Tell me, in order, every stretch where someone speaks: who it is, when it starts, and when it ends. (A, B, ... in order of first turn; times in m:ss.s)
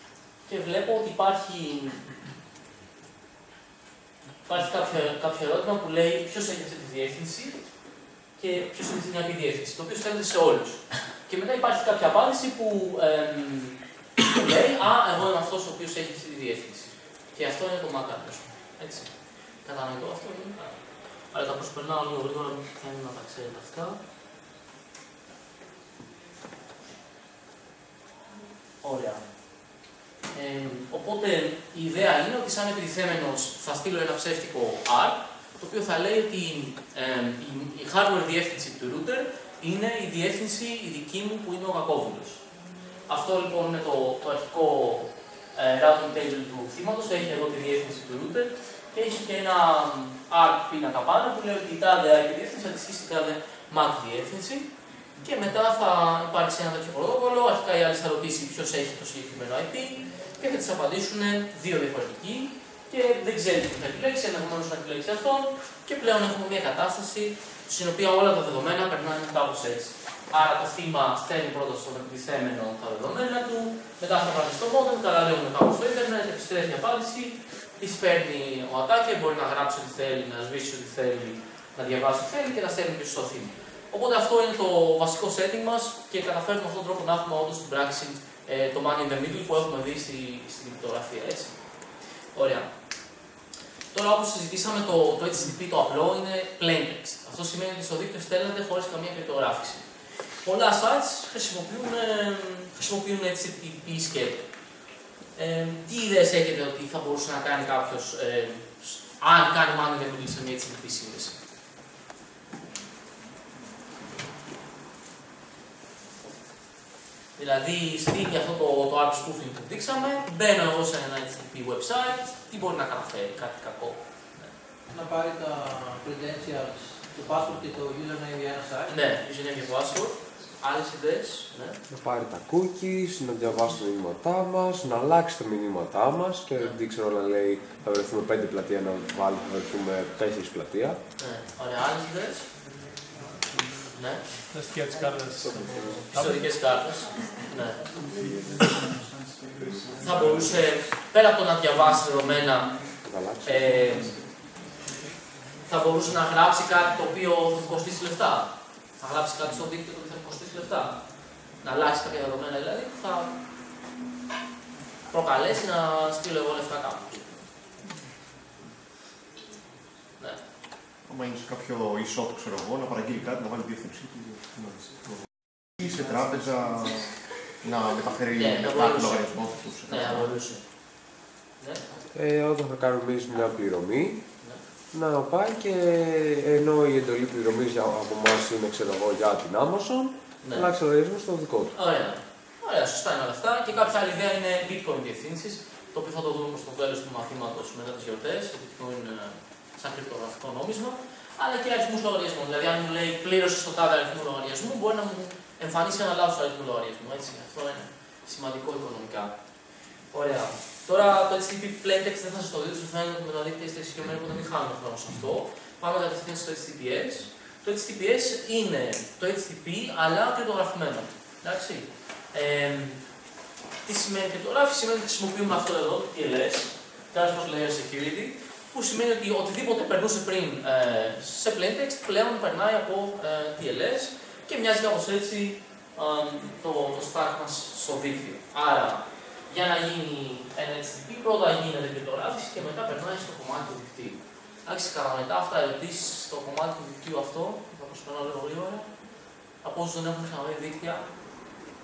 0:00.5-0:02.0 A
0:04.5-0:07.6 A
0:08.4-0:19.1 A
0:19.6-0:20.8 A
0:21.3-0:24.0 A
0:28.8-0:29.2 A
0:30.3-0:42.4 A
0:43.1-0:54.7 A
0:55.2-1:31.6 A
1:32.3-1:32.7 A
1:33.9-1:39.8 A
1:40.4-1:44.4 A
1:45.4-1:51.4 A
1:57.4-2:04.5 A
2:04.9-2:09.0 B
2:08.9-2:11.8 A
2:11.9-2:21.0 C
2:21.2-2:22.4 A
2:23.9-2:24.2 A
2:24.5-2:26.4 D
2:25.4-2:26.0 C
2:26.1-2:27.8 A
2:30.0-2:32.7 A
2:33.1-2:34.1 C
2:33.4-2:34.1 A
2:35.7-2:40.9 A
2:41.6-2:43.3 A
2:45.1-2:47.4 A
2:51.0-2:55.0 E
2:55.8-3:00.3 E
2:58.4-3:00.6 A
3:01.6-3:01.8 A
3:02.1-3:04.2 C
3:04.9-3:11.7 C
3:10.4-3:10.7 A
3:11.7-3:29.3 A
3:30.1-3:43.0 A
3:43.8-4:08.9 A
4:09.6-4:11.0 A